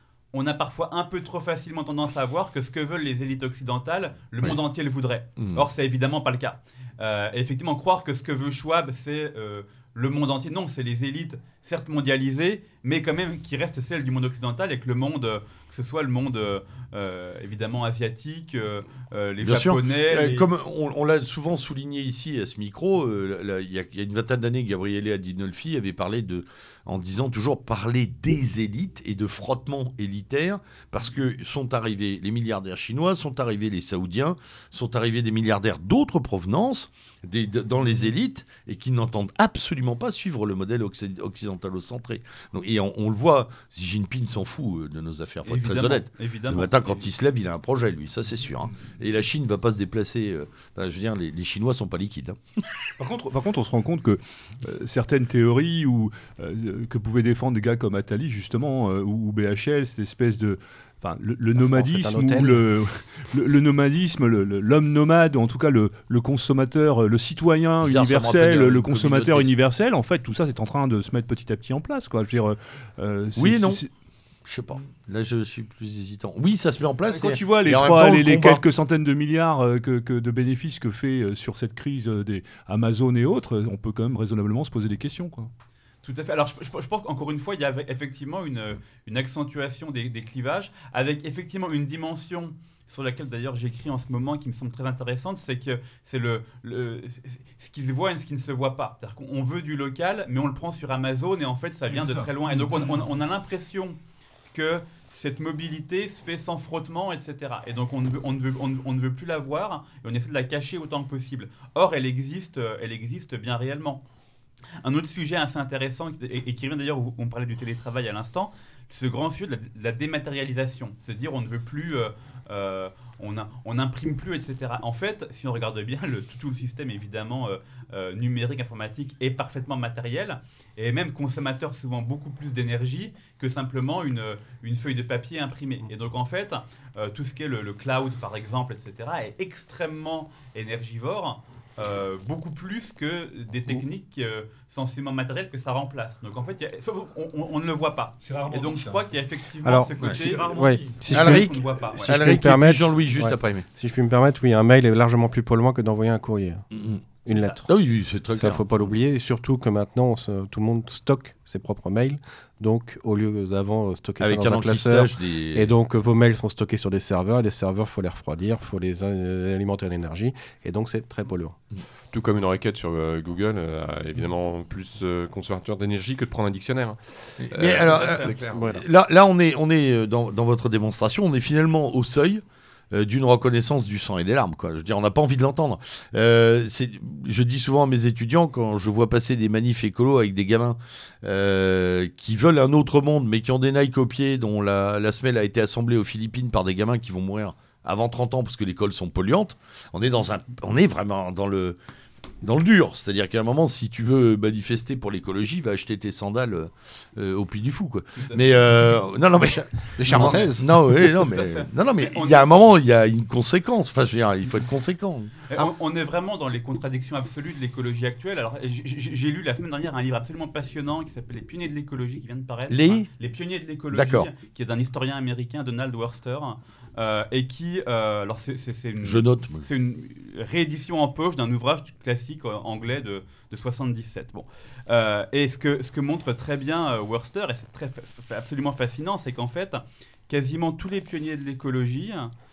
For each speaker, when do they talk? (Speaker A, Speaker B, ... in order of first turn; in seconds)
Speaker A: 0.3-20.5, 45.5-47.1, 86.0-104.0, 104.5-114.0, 114.8-152.2, 157.3-157.6, 177.8-178.3, 208.2-208.5, 210.1-210.4, 211.2-212.5, 215.5-242.3
Speaker B: 5.4-5.7, 19.4-52.4, 67.8-69.5, 73.4-73.8, 74.5-78.6, 151.1-153.7, 156.7-157.0, 157.7-158.7, 164.2-165.7, 177.5-201.8, 202.4-215.4, 222.7-223.1, 223.9-224.3, 229.0-229.7
Speaker C: 53.0-73.9, 77.2-85.5, 101.9-102.9, 148.2-149.0, 150.1-151.1
Speaker D: 61.5-62.7, 149.6-156.7, 157.3-157.7, 158.4-171.6, 178.5-178.8, 210.0-211.0
Speaker E: 172.1-178.6